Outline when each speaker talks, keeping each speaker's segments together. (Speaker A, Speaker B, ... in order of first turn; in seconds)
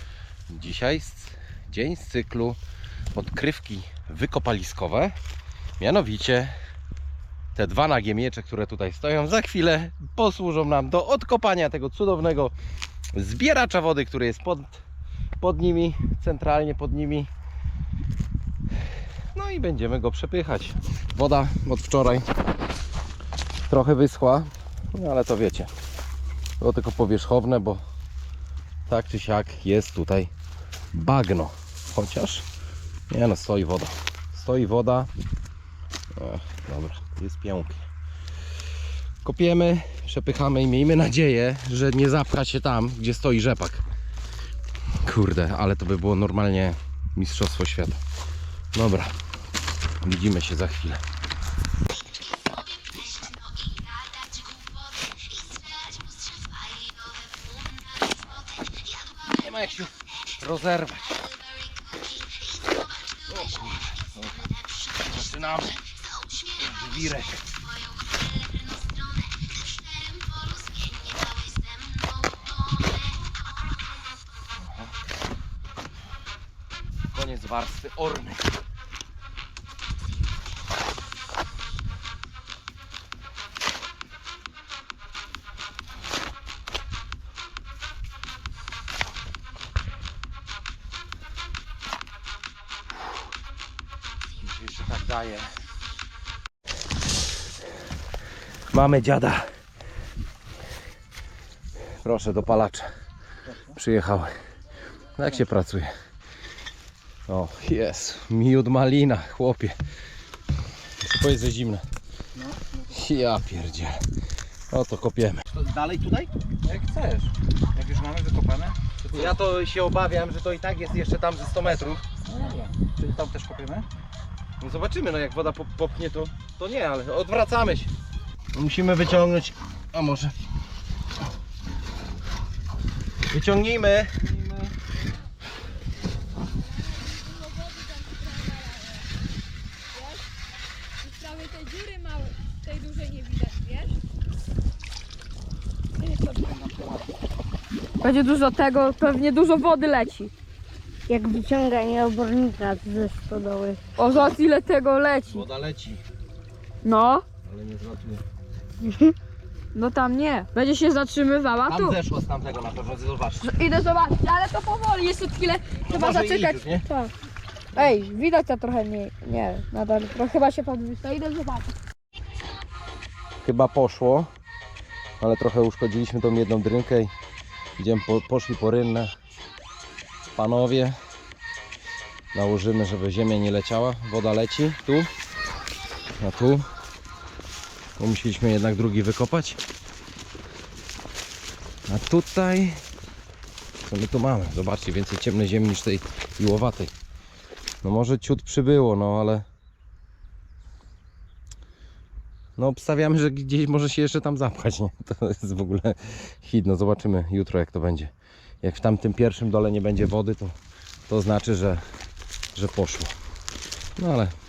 Speaker A: 0.5-2.6, 3.1-5.2, 5.8-6.5, 7.5-12.5, 13.1-14.8, 15.4-17.3, 19.3-22.3, 23.7-25.7, 26.6-27.8, 28.9-30.3, 30.9-32.5, 33.1-35.1, 36.1-37.9, 39.2-43.8, 45.0-48.0, 48.7-49.1, 50.0-51.0, 59.1-61.3, 63.3-67.6, 74.6-74.9, 77.1-78.5, 94.4-95.5, 98.7-99.4, 102.0-102.9, 103.7-104.3, 105.2-105.9, 107.3-109.8, 111.0-111.8, 112.8-114.0, 114.7-116.3, 119.1-122.0, 124.6-127.9, 128.5-130.3, 133.3-134.7, 155.3-156.0, 157.4-158.2, 161.7-163.5, 165.9-166.8, 173.4-174.3, 175.2-177.1, 177.8-179.1, 180.4-181.0, 182.3-185.1, 186.2-186.7, 188.0-189.6, 191.9-192.8, 193.8-196.9, 197.8-199.4, 202.6-208.1, 208.6-210.6, 211.1-211.8, 212.6-213.1, 214.0-214.3
Speaker B: 112.4-112.7, 116.6-119.3, 122.2-123.9, 146.0-147.1
Speaker C: 136.7-139.1, 139.9-140.2, 141.0-144.0, 148.0-150.3, 154.0-155.4, 156.8-157.2, 159.8-162.0, 163.4-167.1, 167.8-171.7
Speaker D: 151.1-153.8, 158.8-159.1